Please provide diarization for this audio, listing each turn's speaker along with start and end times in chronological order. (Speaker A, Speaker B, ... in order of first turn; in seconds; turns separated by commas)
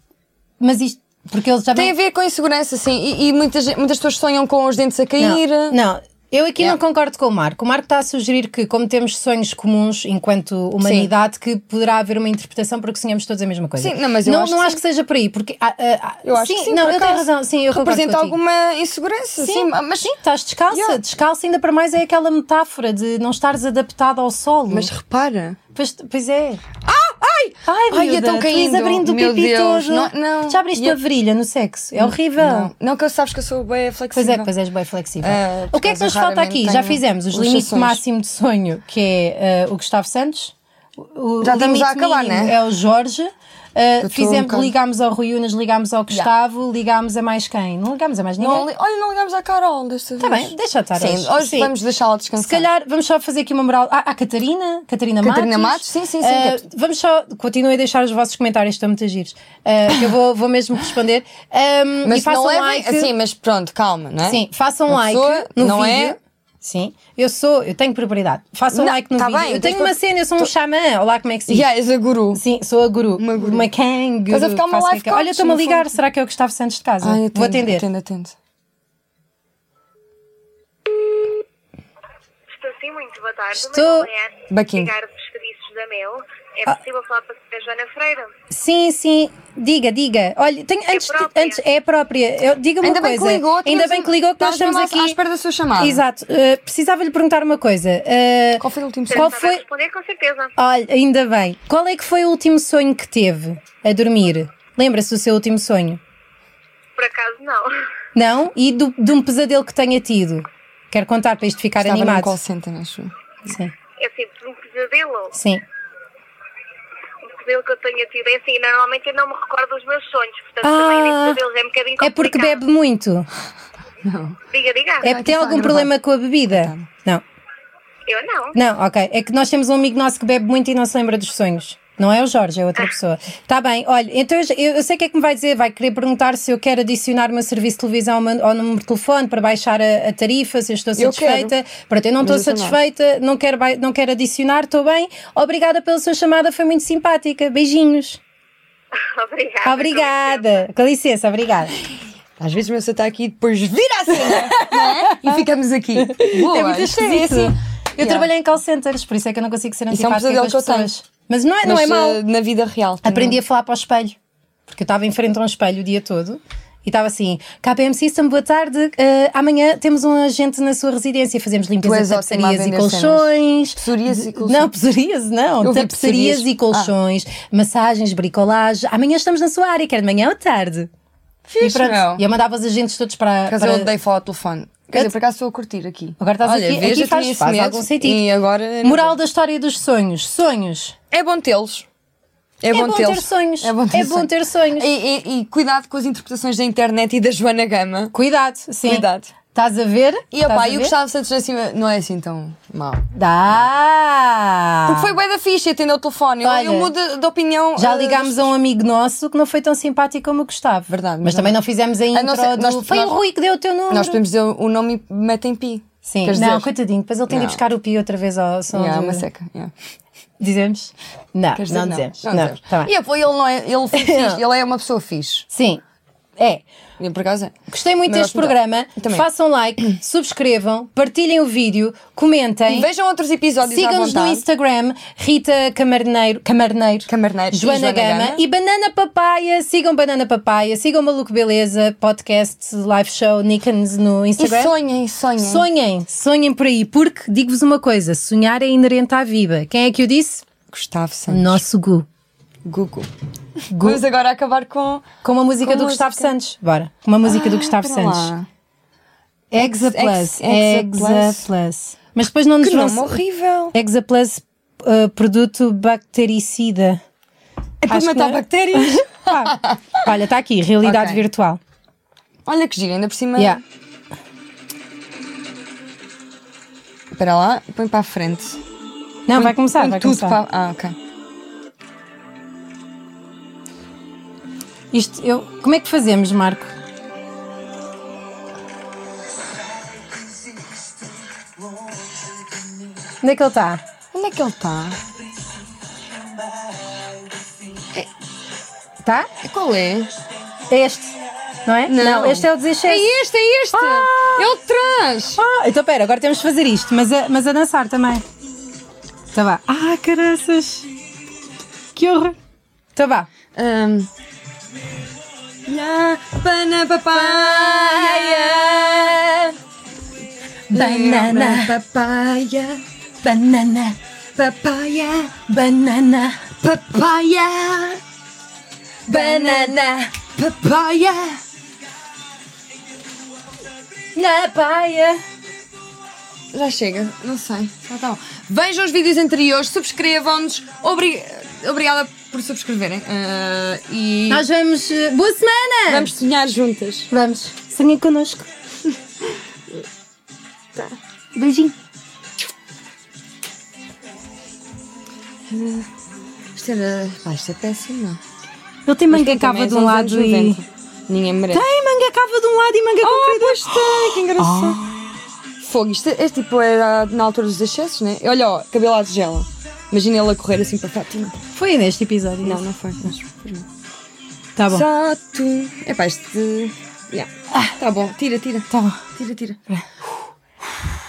Speaker A: 0.6-1.9, Speaker B: 1.7-5.8, Speaker A: 5.2-18.4, Speaker B: 10.8-11.1, Speaker B: 13.8-14.8, Speaker B: 16.2-20.2, Speaker A: 19.4-24.9, Speaker B: 20.7-21.0, Speaker B: 24.7-25.6, Speaker A: 25.8-26.7, Speaker B: 26.8-31.0, Speaker A: 27.6-32.7, Speaker B: 32.0-34.5, Speaker A: 34.1-48.7, Speaker B: 35.2-38.0, Speaker B: 41.4-42.6, Speaker B: 44.0-44.7, Speaker B: 48.4-52.7, Speaker A: 50.2-51.7, Speaker A: 52.4-63.1, Speaker B: 55.2-56.6, Speaker B: 62.0-66.2, Speaker A: 64.2-71.7, Speaker B: 68.7-70.5, Speaker B: 71.5-72.4, Speaker A: 72.3-77.9, Speaker B: 73.2-73.7, Speaker B: 74.3-76.0, Speaker B: 77.0-78.4, Speaker C: 82.5-88.3, Speaker A: 83.5-84.1, Speaker B: 84.5-84.9, Speaker A: 88.5-95.2, Speaker C: 90.9-91.6, Speaker B: 92.8-96.0, Speaker A: 95.8-99.6, Speaker B: 98.6-99.3, Speaker C: 99.1-100.5, Speaker A: 100.6-106.0, Speaker C: 107.0-107.7, Speaker A: 108.2-112.4, Speaker B: 111.8-113.1, Speaker A: 113.5-113.7, Speaker C: 114.0-115.4, Speaker A: 115.3-115.6, Speaker C: 117.2-122.6, Speaker A: 120.6-121.4, Speaker A: 122.0-123.3, Speaker B: 124.0-124.4, Speaker C: 124.5-125.1, Speaker B: 125.0-125.9, Speaker A: 125.0-127.2, Speaker B: 126.5-126.9, Speaker C: 128.1-128.6, Speaker A: 128.5-148.2, Speaker B: 141.0-141.5, Speaker B: 142.2-142.8, Speaker C: 149.0-150.6, Speaker A: 149.6-151.8, Speaker B: 152.4-158.3, Speaker A: 154.2-155.4, Speaker A: 156.0-162.2, Speaker B: 159.9-160.9, Speaker B: 161.6-163.4, Speaker A: 163.0-164.2, Speaker A: 164.7-180.9, Speaker B: 171.8-174.7, Speaker B: 175.6-176.9, Speaker B: 181.5-182.3, Speaker A: 181.6-183.9, Speaker B: 183.5-189.2, Speaker A: 186.2-188.3, Speaker A: 188.8-191.0, Speaker B: 191.1-191.9, Speaker B: 192.6-198.1, Speaker A: 192.7-194.9, Speaker A: 198.1-200.9, Speaker B: 198.8-199.3, Speaker B: 200.3-203.6, Speaker A: 203.2-205.2, Speaker B: 204.9-208.5, Speaker A: 206.4-206.9, Speaker A: 207.8-214.2, Speaker B: 210.9-211.6, Speaker B: 212.1-213.2, Speaker B: 213.9-216.7, Speaker A: 216.1-219.3, Speaker B: 217.3-217.6, Speaker B: 218.7-219.7, Speaker A: 220.4-222.9, Speaker B: 221.6-225.5, Speaker A: 223.9-224.4, Speaker A: 225.5-225.8, Speaker A: 226.4-226.7, Speaker B: 227.0-229.3, Speaker A: 227.7-232.9, Speaker B: 232.7-234.4, Speaker A: 233.6-244.7, Speaker B: 237.1-238.4, Speaker B: 244.4-245.7, Speaker A: 245.4-250.5, Speaker B: 250.7-251.6, Speaker A: 251.3-252.1, Speaker B: 252.7-253.1, Speaker A: 253.7-254.0, Speaker B: 253.8-255.1, Speaker A: 255.2-258.3, Speaker B: 255.6-256.3, Speaker B: 257.2-258.5, Speaker A: 259.5-263.2, Speaker B: 259.6-261.5, Speaker B: 262.6-263.8, Speaker A: 263.7-267.0, Speaker B: 267.8-270.0, Speaker A: 267.9-271.6, Speaker B: 270.8-271.2, Speaker B: 272.4-273.6, Speaker B: 277.1-278.6, Speaker A: 279.3-280.4, Speaker B: 279.3-280.9, Speaker A: 284.9-286.7, Speaker A: 293.2-293.8, Speaker B: 294.1-295.0, Speaker A: 299.0-299.3, Speaker B: 299.4-300.1, Speaker A: 300.7-301.1, Speaker A: 301.7-303.1, Speaker B: 301.9-305.4, Speaker A: 303.7-304.5, Speaker A: 305.4-308.2, Speaker A: 309.3-310.9, Speaker A: 311.9-312.4, Speaker A: 313.0-313.3, Speaker B: 313.6-314.1, Speaker B: 315.7-319.5, Speaker A: 317.1-319.2, Speaker A: 320.7-321.8, Speaker B: 320.7-322.8, Speaker A: 323.2-324.0, Speaker B: 324.4-325.4, Speaker A: 325.4-326.5, Speaker B: 326.6-328.0, Speaker A: 329.1-330.2, Speaker B: 329.1-331.4, Speaker A: 334.1-335.2, Speaker B: 336.5-344.4, Speaker A: 344.3-346.1, Speaker B: 345.9-347.1, Speaker A: 347.1-348.5, Speaker B: 348.9-349.8, Speaker A: 351.4-351.8, Speaker B: 355.5-355.9, Speaker B: 356.6-358.2, Speaker A: 358.9-360.6, Speaker B: 359.1-361.7, Speaker A: 361.5-364.8, Speaker B: 363.0-364.9, Speaker B: 365.6-371.4, Speaker A: 371.5-372.6, Speaker B: 372.4-373.7, Speaker A: 374.6-374.8, Speaker B: 374.7-379.6, Speaker A: 378.7-379.0